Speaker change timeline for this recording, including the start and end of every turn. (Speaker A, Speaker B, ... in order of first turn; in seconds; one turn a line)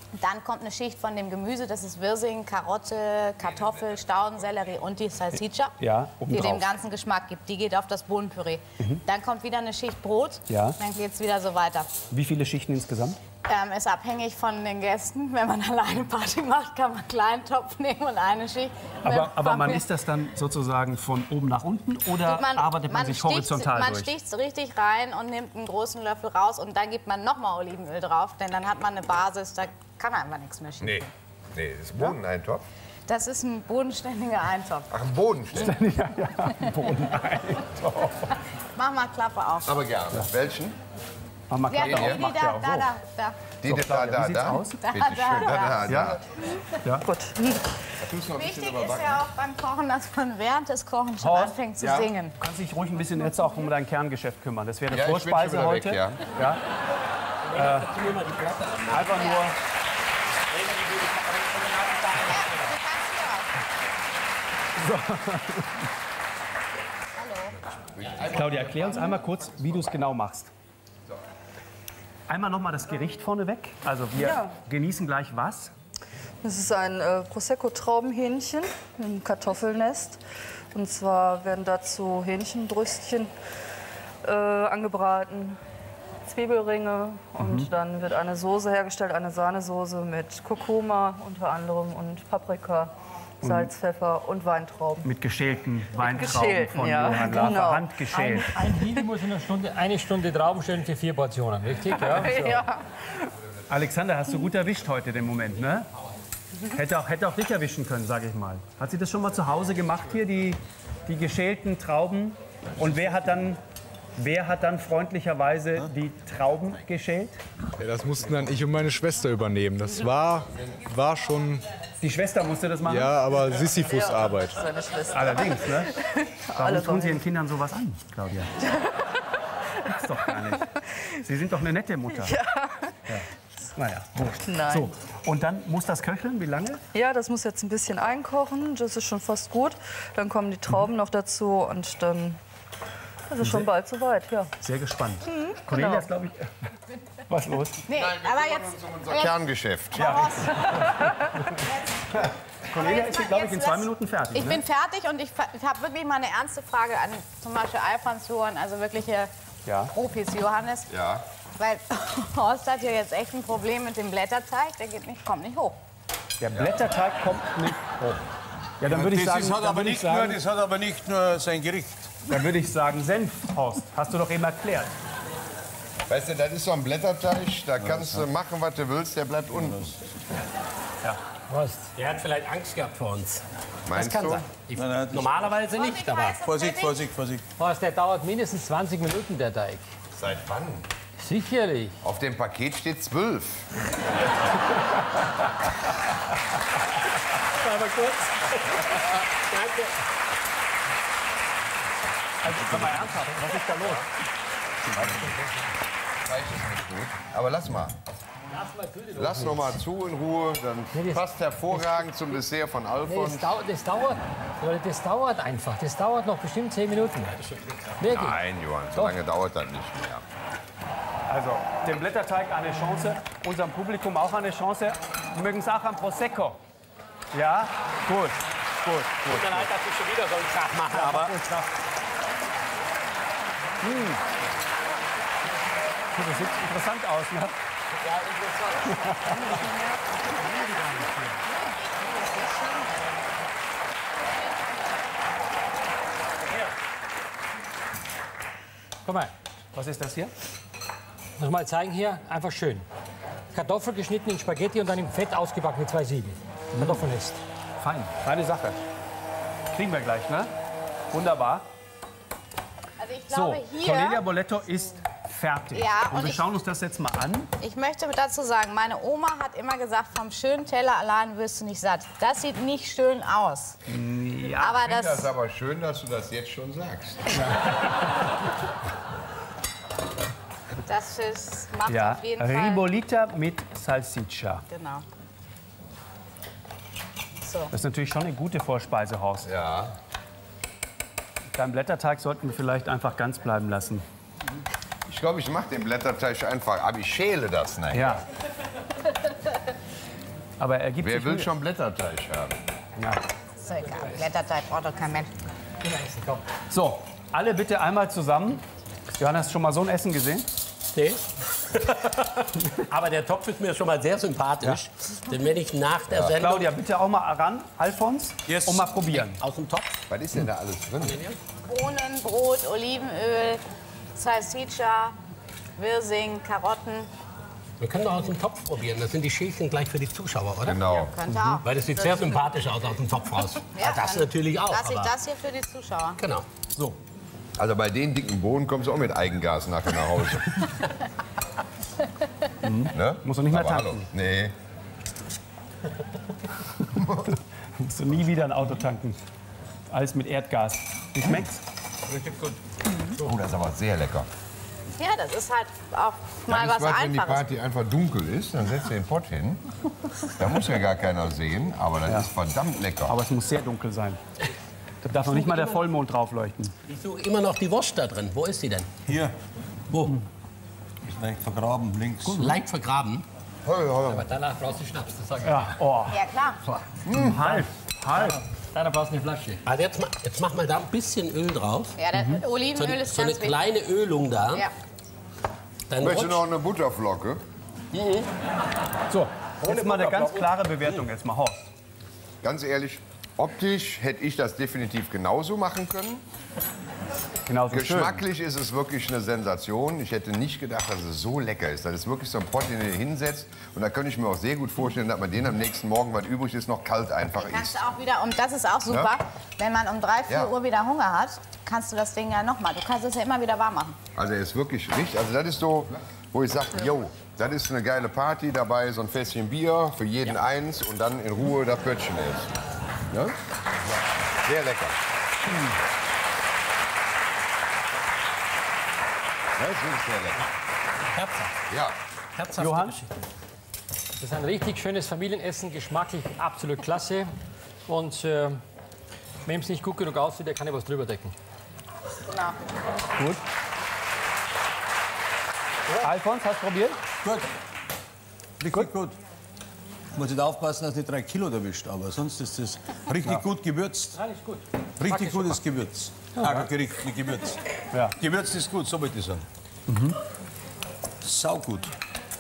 Speaker A: 0.1-11.9
Speaker B: 5.8-6.7
Speaker B: 10.5-10.8
Speaker B: 12.1-13.2
Speaker A: 13.4-19.8
Speaker B: 19.0-24.1
Speaker A: 22.2-31.1
Speaker C: 30.8-32.6
Speaker A: 33.1-34.9
Speaker C: 34.9-35.8
Speaker B: 35.5-38.3
Speaker A: 38.8-39.8
Speaker C: 39.6-40.8
Speaker B: 41.5-42.9
Speaker A: 41.7-43.5
Speaker C: 41.7-42.3
Speaker C: 43.6-46.2
Speaker B: 43.6-44.8
Speaker A: 44.8-46.1
Speaker B: 45.9-46.2
Speaker D: 46.4-47.8
Speaker C: 48.0-49.2
Speaker A: 48.3-52.4
Speaker B: 51.2-51.6
Speaker C: 51.8-52.1
Speaker B: 52.4-56.6
Speaker C: 54.9-56.2
Speaker E: 57.5-59.2
Speaker B: 57.5-57.9
Speaker B: 58.9-59.6
Speaker A: 59.1-59.5
Speaker E: 60.5-62.8
Speaker A: 62.2-63.5
Speaker B: 64.8-65.8
Speaker A: 67.2-67.6
Speaker C: 67.8-69.2
Speaker B: 68.3-70.5
Speaker B: 72.3-75.7
Speaker D: 74.2-74.6
Speaker D: 76.4-80.2
Speaker D: 80.7-83.3
Speaker D: 84.2-85.6
Speaker D: 86.2-95.1
Speaker B: 87.4-87.7
Speaker B: 93.4-93.7
Speaker B: 95.0-98.5
Speaker D: 96.0-98.0
Speaker F: 98.1-102.7
Speaker D: 98.6-99.1
Speaker D: 101.9-103.0
Speaker B: 103.7-105.9
Speaker B: 106.7-113.6
Speaker B: 114.2-117.4
Speaker G: 117.8-121.7
Speaker B: 122.0-123.2
Speaker G: 122.8-124.6
Speaker D: 123.8-127.2
Speaker B: 125.1-126.0
Speaker B: 126.6-128.5
Speaker D: 128.6-129.0
Speaker B: 129.9-132.4
Speaker D: 132.1-132.9
Speaker B: 133.1-136.8
Speaker D: 134.4-134.9
Speaker D: 136.9-142.4
Speaker D: 143.3-144.5
Speaker B: 143.4-143.7
Speaker B: 144.6-146.5
Speaker D: 145.2-146.1
Speaker B: 147.3-147.8
Speaker A: 147.9-149.3
Speaker C: 147.9-150.3
Speaker A: 149.9-159.3
Speaker B: 150.0-150.5
Speaker B: 152.7-154.6
Speaker B: 159.7-159.9
Speaker A: 159.9-160.9
Speaker C: 160.9-161.2
Speaker A: 161.6-165.8
Speaker B: 166.4-168.2
Speaker C: 166.5-166.9
Speaker B: 168.8-170.4
Speaker H: 168.8-172.1
Speaker B: 172.3-174.9
Speaker C: 176.1-179.9
Speaker H: 177.8-178.2
Speaker H: 179.6-179.9
Speaker F: 181.5-181.9
Speaker E: 182.0-183.4
Speaker C: 183.9-184.5
Speaker F: 184.0-184.4
Speaker E: 184.0-186.4
Speaker H: 184.7-185.4
Speaker A: 185.7-187.1
Speaker H: 186.4-187.4
Speaker F: 187.6-189.9
Speaker C: 190.1-190.9
Speaker F: 191.2-192.0
Speaker C: 192.0-193.7
Speaker E: 197.5-200.0
Speaker B: 202.4-204.1
Speaker C: 204.9-205.3
Speaker E: 205.0-205.5
Speaker C: 206.2-208.0
Speaker F: 208.5-209.8
Speaker C: 209.2-213.5
Speaker F: 210.9-212.2
Speaker F: 213.1-218.4
Speaker C: 218.1-220.2
Speaker B: 221.3-226.6
Speaker B: 227.3-229.7
Speaker E: 229.3-231.6
Speaker B: 230.9-231.4
Speaker B: 233.8-234.2
Speaker B: 236.2-237.6
Speaker E: 238.0-239.8
Speaker B: 239.0-239.4
Speaker F: 240.9-241.3
Speaker A: 241.5-242.8
Speaker F: 249.1-249.3
Speaker B: 249.8-250.3
Speaker F: 251.4-252.9
Speaker F: 253.5-257.4
Speaker B: 257.8-258.8
Speaker B: 259.7-260.5
Speaker B: 261.1-261.7
Speaker A: 263.0-264.3
Speaker B: 263.3-267.5
Speaker A: 265.7-266.5
Speaker A: 267.6-273.8
Speaker B: 273.9-274.8
Speaker A: 274.6-275.3
Speaker C: 274.8-277.4
Speaker A: 280.9-282.9
Speaker B: 281.9-284.6
Speaker A: 284.7-285.1
Speaker A: 287.4-287.7
Speaker B: 287.7-289.5
Speaker C: 289.4-289.9
Speaker B: 291.5-294.1
Speaker C: 295.1-298.2
Speaker B: 297.9-298.2
Speaker B: 300.6-301.5
Speaker C: 301.0-302.6
Speaker A: 303.6-305.3
Speaker F: 305.8-306.4
Speaker B: 306.7-308.6
Speaker B: 309.2-310.5
Speaker E: 310.9-316.7
Speaker B: 316.4-319.4
Speaker H: 318.5-318.9
Speaker E: 319.1-320.0
Speaker C: 320.1-321.2
Speaker E: 321.0-321.4
Speaker A: 321.6-323.6
Speaker A: 324.2-325.2
Speaker A: 325.8-327.1
Speaker E: 327.8-330.8
Speaker C: 330.6-331.1
Speaker A: 330.8-331.6
Speaker B: 331.3-331.6
Speaker E: 331.6-335.1
Speaker A: 333.8-336.2
Speaker E: 336.2-336.5
Speaker B: 336.7-337.0
Speaker C: 337.6-340.6
Speaker B: 342.6-344.1
Speaker C: 342.9-344.6
Speaker C: 347.0-347.3
Speaker B: 347.8-349.2
Speaker B: 349.9-351.6
Speaker C: 353.2-354.3
Speaker A: 355.0-357.6
Speaker C: 356.5-359.6
Speaker C: 360.3-363.2
Speaker B: 363.1-364.2
Speaker B: 365.0-366.7
Speaker E: 365.3-365.8
Speaker E: 366.9-368.9
Speaker H: 369.1-369.3
Speaker E: 369.9-370.2
Speaker H: 371.1-372.5
Speaker B: 372.2-372.6
Speaker E: 372.4-373.2
Speaker C: 373.6-374.3
Speaker F: 374.1-375.8
Speaker B: 375.4-376.2
Speaker A: 376.1-376.6
Speaker C: 377.1-377.4
Speaker B: 377.1-378.4
Speaker F: 378.1-379.6
Speaker E: 379.6-382.0
Speaker A: 382.0-383.7
Speaker B: 382.1-382.4
Speaker E: 382.8-384.7
Speaker E: 385.9-386.4
Speaker C: 386.0-387.4
Speaker B: 389.1-391.7
Speaker F: 389.6-390.5
Speaker C: 392.4-396.2
Speaker B: 397.5-398.2
Speaker C: 397.7-407.8
Speaker A: 407.4-414.0
Speaker C: 408.9-409.2
Speaker C: 410.3-410.5
Speaker C: 414.2-422.5
Speaker C: 423.1-423.4
Speaker C: 424.4-425.0
Speaker C: 429.6-430.4
Speaker E: 431.1-431.5
Speaker C: 431.7-432.0
Speaker E: 432.4-433.1
Speaker B: 432.6-433.0
Speaker F: 434.2-437.3
Speaker F: 437.9-438.6
Speaker F: 439.4-441.4
Speaker B: 446.0-447.0
Speaker H: 447.2-447.5
Speaker H: 448.6-449.2
Speaker H: 450.1-454.2
Speaker F: 454.1-455.6
Speaker H: 455.0-457.6
Speaker B: 456.4-456.7
Speaker H: 458.2-459.4
Speaker B: 459.9-460.2
Speaker H: 461.2-461.9